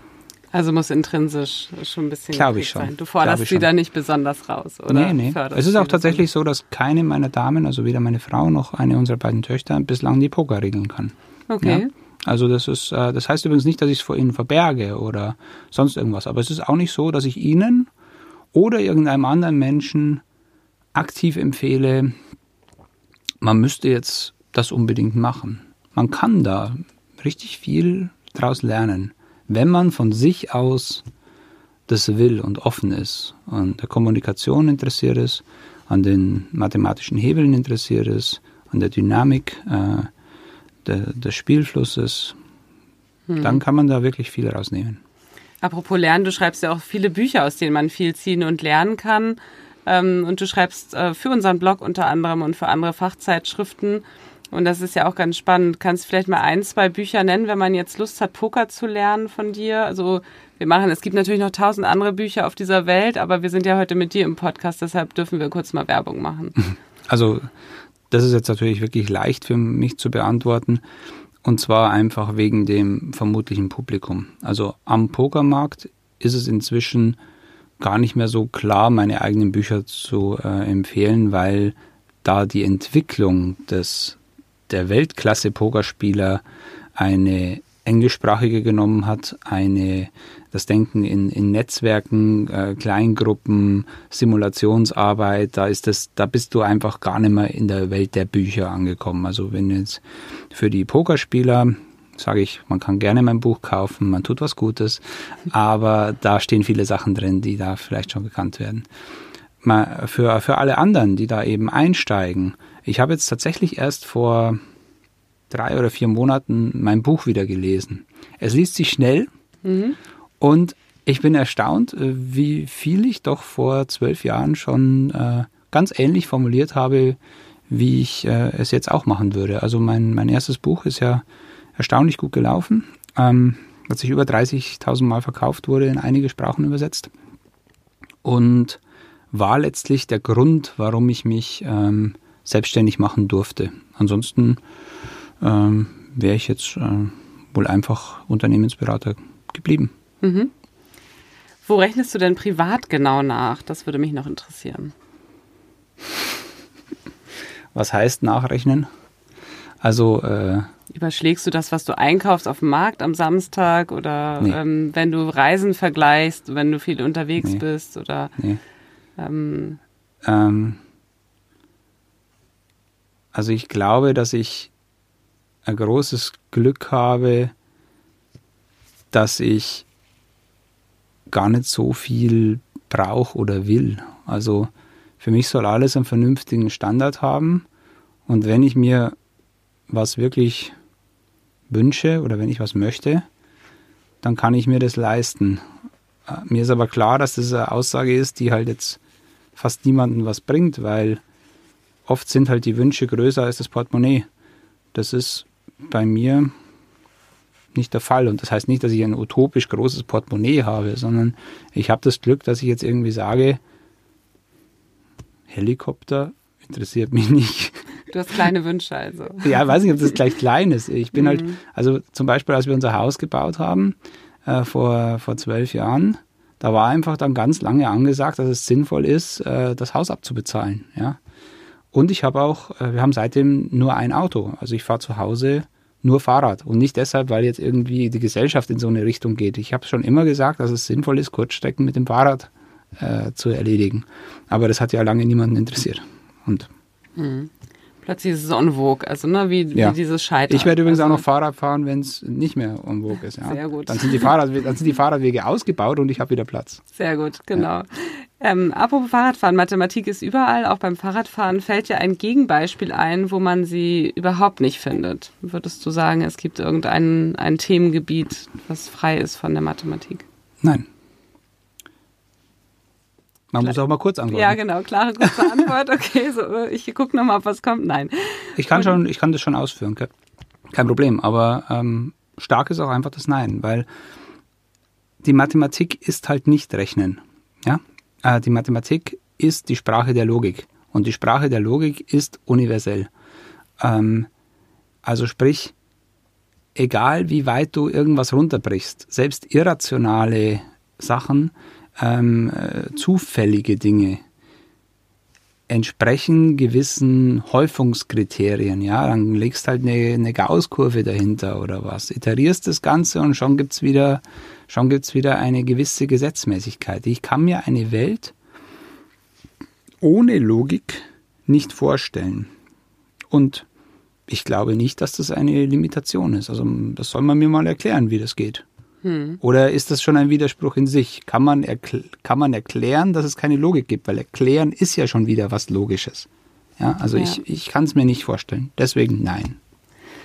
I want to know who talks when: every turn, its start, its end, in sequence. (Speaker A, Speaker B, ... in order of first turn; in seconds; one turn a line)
Speaker A: 0.5-6.2
Speaker B: 2.3-3.7
Speaker B: 4.9-17.9
Speaker A: 11.5-11.9
Speaker B: 18.5-20.2
Speaker B: 20.9-22.2
Speaker B: 23.4-31.1
Speaker B: 31.9-40.1
Speaker B: 40.9-42.4
Speaker A: 43.3-43.6
Speaker B: 43.4-45.0
Speaker A: 45.6-66.7
Speaker B: 67.1-67.5
Speaker B: 68.1-70.8
Speaker B: 71.4-77.2
Speaker B: 77.8-84.2
Speaker B: 84.7-86.4
Speaker B: 87.0-108.9
Speaker B: 109.6-114.6
Speaker B: 115.5-119.3
Speaker A: 119.7-120.0
Speaker B: 120.4-131.2
Speaker B: 131.8-137.1
Speaker B: 138.2-138.8
Speaker B: 139.3-144.6
Speaker B: 145.4-149.9
Speaker A: 150.2-150.5
Speaker A: 151.7-154.9
Speaker B: 157.7-158.9
Speaker B: 159.8-160.7
Speaker A: 160.9-168.3
Speaker A: 169.2-169.8
Speaker B: 170.2-170.8
Speaker B: 173.3-174.7
Speaker B: 175.7-177.5
Speaker B: 179.1-179.9
Speaker B: 181.3-187.7
Speaker B: 188.3-189.2
Speaker B: 189.9-190.8
Speaker B: 191.7-193.3
Speaker B: 194.2-195.6
Speaker B: 196.3-199.0
Speaker B: 199.6-201.2
Speaker B: 202.1-204.3
Speaker B: 204.9-206.5
Speaker B: 207.7-213.6
Speaker B: 215.5-217.8
Speaker A: 218.1-219.6
Speaker B: 219.4-231.2
Speaker A: 221.2-221.6
Speaker B: 231.9-246.7
Speaker A: 247.2-247.5
Speaker A: 248.0-251.2
Speaker B: 250.5-256.8
Speaker A: 253.4-254.3
Speaker A: 256.9-270.3
Speaker B: 270.6-270.9
Speaker B: 273.5-274.6
Speaker A: 273.6-279.0
Speaker B: 278.6-280.1
Speaker B: 280.7-283.9
Speaker B: 285.2-293.1
Speaker B: 293.8-294.3
Speaker B: 295.0-295.8
Speaker B: 296.8-304.2
Speaker B: 305.7-318.3
Speaker B: 320.0-322.5
Speaker B: 323.3-323.7
Speaker B: 324.3-328.6
Speaker A: 329.0-329.4
Speaker B: 329.4-336.3
Speaker B: 336.8-339.6
Speaker A: 337.1-337.4